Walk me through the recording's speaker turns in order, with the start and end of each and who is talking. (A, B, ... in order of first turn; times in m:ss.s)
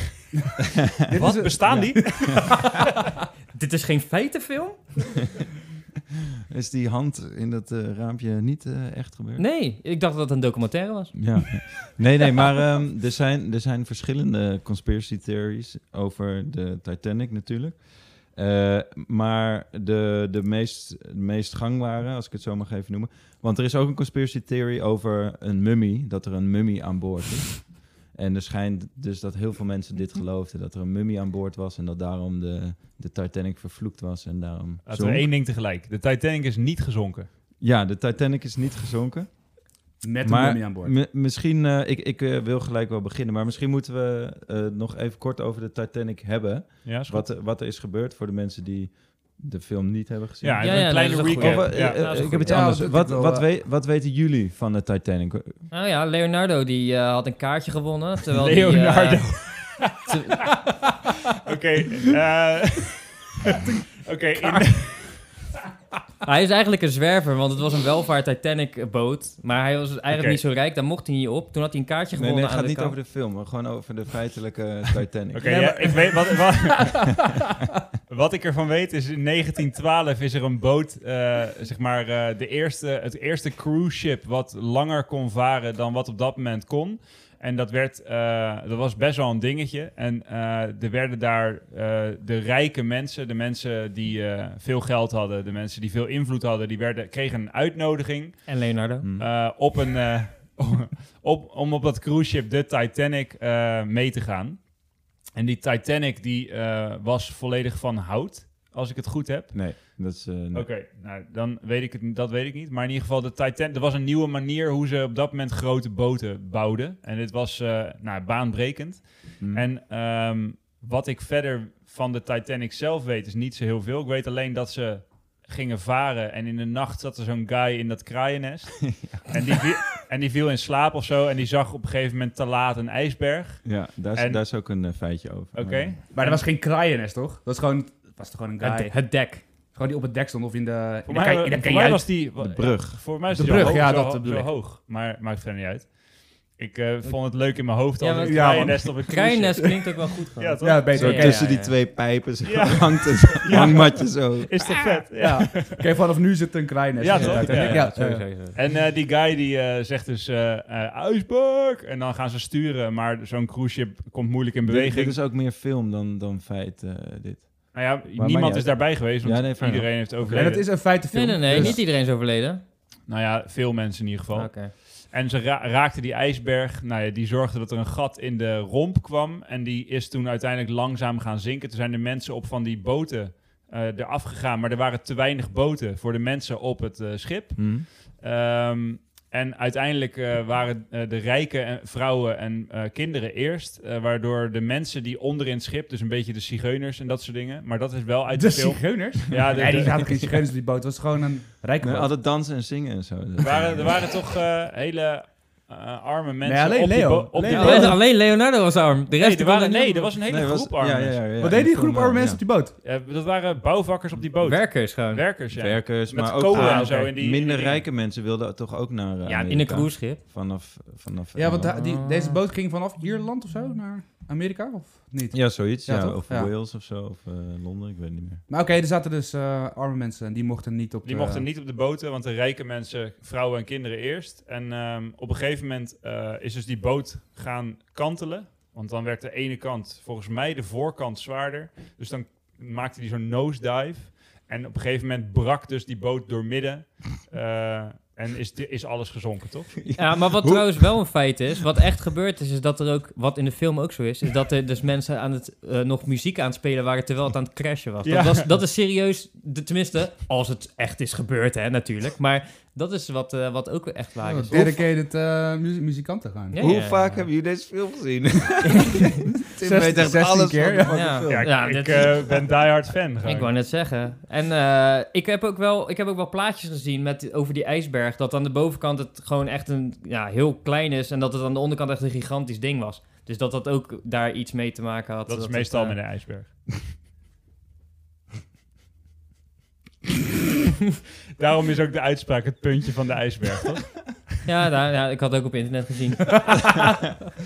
0:01.1-0:02.5 A
0:01.2-0:02.6 B
0:01.7-0:02.0 C
0:03.5-0:04.8 D
0:06.5-0:09.4 C
0:09.4-0:11.8 D
0:11.1-0:35.3 C
0:34.9-0:37.3 B
0:37.6-0:39.6 C
0:40.0-0:40.9 A
0:40.2-0:55.6 C
0:46.8-0:47.2 B
0:50.4-0:52.2 B
0:50.6-0:52.8 D
0:52.3-0:53.5 A
0:55.7-0:59.5 D
0:58.4-1:00.2 B
1:00.1-1:00.4 D
1:01.3-1:05.4 B
1:06.2-1:13.0 D
1:10.1-1:10.4 B
1:12.2-1:16.0 C
1:15.3-1:17.5 B
1:15.4-1:16.5 A
1:18.1-1:38.6 B
1:38.5-1:39.1 D
1:39.0-1:39.3 C
1:39.2-1:44.7 B
1:45.3-2:14.4 B
1:49.5-1:50.7 C
2:13.6-2:15.9 C
2:15.6-2:16.4 B
2:16.1-2:19.0 A
2:18.6-2:19.4 D
2:19.7-2:22.1 A
2:21.1-2:29.8 B
2:22.4-2:23.8 C
2:23.3-2:24.5 A
2:28.0-2:31.8 D
2:28.2-2:29.2 A
2:30.4-2:31.0 B
2:30.6-2:31.5 A
2:30.9-2:34.8 C
2:32.4-2:35.8 B
2:35.1-2:38.3 A
2:37.0-2:38.0 B
2:37.1-2:38.6 D
2:38.5-2:45.2 B
2:44.6-2:50.6 C
2:47.7-2:50.7 B
2:50.3-2:51.8 A
2:51.1-2:52.6 D
2:53.1-3:20.2 B
2:54.3-2:54.7 D
3:07.6-3:07.9 C
3:18.4-3:22.1 A
3:21.8-3:24.1 C
3:23.4-3:28.0 B
3:26.4-3:28.0 A
3:27.5-3:30.1 D
3:29.2-3:31.2 B
3:30.3-3:32.4 C
3:31.4-3:32.8 A
3:32.8-3:37.8 B
3:34.4-3:35.2 D
3:35.5-3:41.7 C
3:36.5-3:37.1 A
3:39.2-3:40.2 D
3:41.4-3:46.5 A
3:41.6-3:42.4 D
3:45.3-3:48.4 C
3:48.5-3:51.4 A
3:51.0-4:10.0 B
4:09.8-4:10.9 C
4:10.0-4:24.8 D
4:18.0-4:18.4 B
4:24.2-4:26.6 A
4:26.5-4:27.2 D
4:26.6-4:31.8 C
4:28.7-4:29.1 D
4:29.4-4:31.1 A
4:30.9-4:32.4 D
4:31.3-4:33.5 B
4:33.2-4:46.0 D
4:45.3-4:46.5 B
4:51.4-4:54.2 B
4:54.4-4:56.8 D